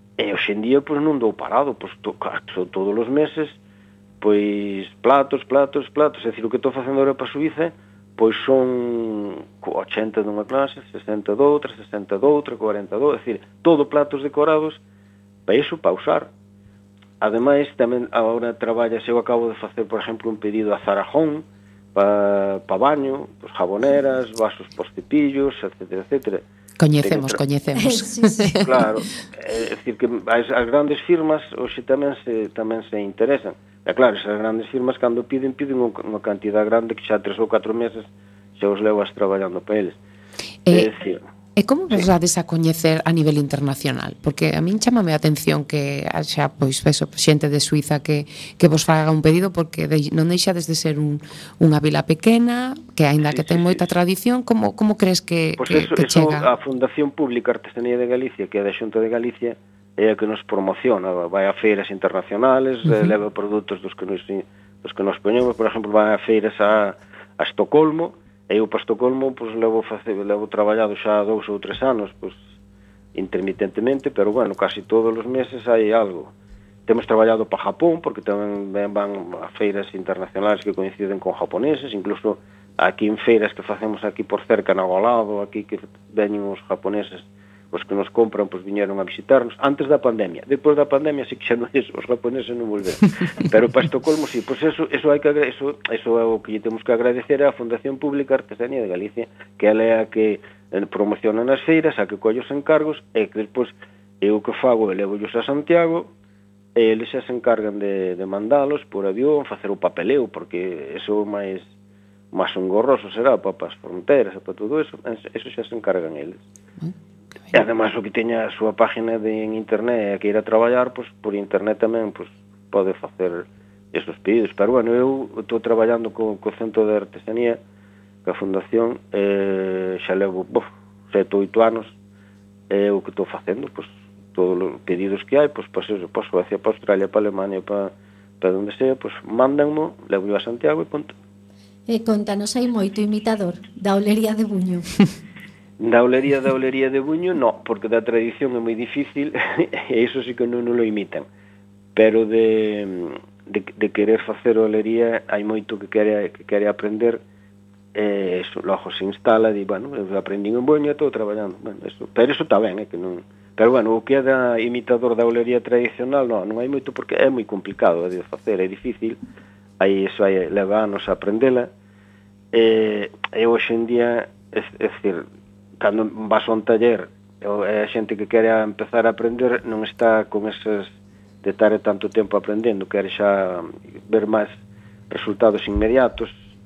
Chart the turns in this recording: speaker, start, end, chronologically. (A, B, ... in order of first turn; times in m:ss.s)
0:00.2-0:03.6 A
0:04.2-0:14.8 A
0:15.4-0:16.3 A
0:17.2-0:26.4 A
0:26.8-0:28.7 B
0:27.0-0:27.4 A
0:27.8-0:28.6 C
0:28.6-0:40.0 A
0:40.6-0:40.9 B
0:40.7-0:41.2 A
0:41.6-0:56.5 B
0:53.2-0:53.9 A
0:55.6-1:12.4 A
1:13.1-1:16.3 A
1:16.9-1:46.1 A
1:46.7-1:51.7 A
1:52.3-1:56.4 A
1:57.5-2:07.6 A
2:08.2-2:11.9 A
2:12.7-2:21.2 A
2:21.9-2:25.0 C
2:25.8-2:31.2 A
2:31.9-2:37.2 A
2:37.9-2:49.2 A
2:49.8-2:51.7 A
2:52.5-2:55.2 A
2:55.8-3:04.6 A
3:05.1-3:06.4 A